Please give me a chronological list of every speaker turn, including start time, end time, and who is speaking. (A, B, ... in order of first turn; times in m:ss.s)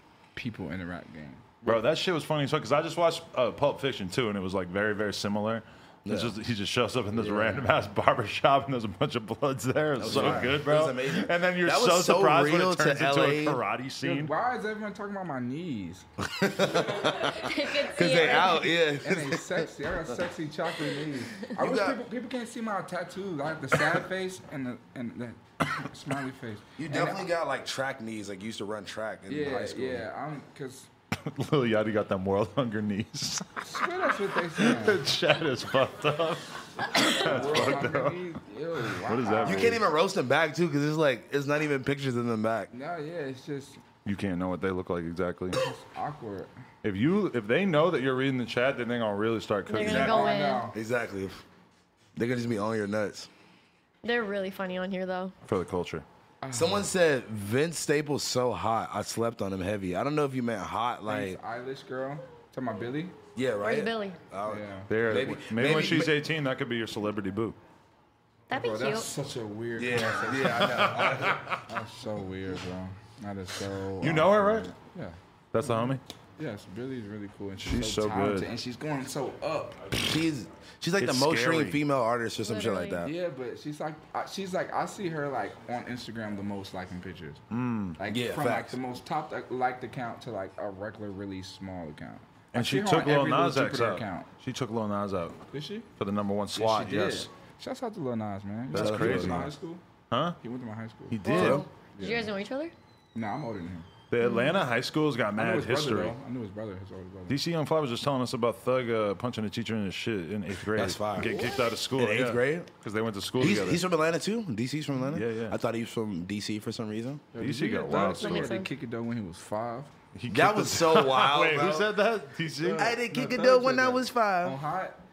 0:00.4-0:01.8 A
0:01.6-0:14.3 B
0:06.1-0:06.4 C
0:07.1-0:07.7 A
0:10.0-0:13.6 C
0:10.1-0:10.6 A
0:14.0-0:16.1 A
0:16.2-0:19.7 C
0:17.0-0:18.8 D
0:19.0-0:27.3 A
0:21.5-0:22.0 C
0:26.8-0:30.1 C
0:29.3-0:30.9 A
0:31.3-0:33.6 B
0:33.6-0:35.0 A
0:34.5-0:38.3 B
0:37.0-0:39.8 A
0:39.0-0:39.8 B
0:39.4-0:42.7 C
0:42.7-0:43.8 A
0:44.0-0:45.6 B
0:45.5-0:46.5 A
0:46.8-0:50.3 B
0:49.7-0:50.7 D
0:49.8-0:50.8 A
0:49.8-0:51.4 C
0:52.2-0:53.3 C
0:54.0-0:55.3 D
0:55.4-0:56.0 B
0:56.4-0:56.9 A
0:56.5-1:01.4 C
1:01.1-1:03.2 A
1:03.4-1:06.1 C
1:03.6-1:04.2 D
1:04.5-1:04.9 A
1:04.9-1:07.6 B
1:08.5-1:09.1 D
1:08.5-1:11.1 A
1:09.8-1:11.4 C
1:10.6-1:11.6 B
1:11.7-1:19.9 A
1:14.0-1:14.7 B
1:15.5-1:16.0 B
1:17.6-1:18.5 B
1:20.0-1:23.1 C
1:21.0-1:21.8 B
1:22.4-1:23.0 D
1:23.0-1:27.4 A
1:27.5-1:28.0 B
1:28.0-1:34.3 A
1:28.1-1:28.8 C
1:32.5-1:35.4 B
1:35.5-1:35.9 A
1:36.0-1:37.3 B
1:36.6-1:39.8 A
1:38.7-1:39.5 B
1:38.7-1:39.5 C
1:40.1-1:40.4 B
1:40.4-1:42.2 A
1:41.1-1:41.7 B
1:41.2-1:42.7 D
1:41.3-1:41.6 C
1:43.2-1:43.9 A
1:44.1-1:46.2 B
1:44.2-1:44.6 D
1:45.4-1:47.4 A
1:47.3-1:53.8 B
1:50.7-1:51.3 C
1:51.2-1:51.5 A
1:52.0-1:52.7 C
1:53.4-1:57.3 C
1:55.1-1:55.6 B
1:57.4-1:59.9 A
1:57.4-1:58.6 B
1:57.9-1:58.7 D
2:00.2-2:02.9 B
2:00.3-2:01.9 C
2:02.6-2:05.0 A
2:02.8-2:04.6 C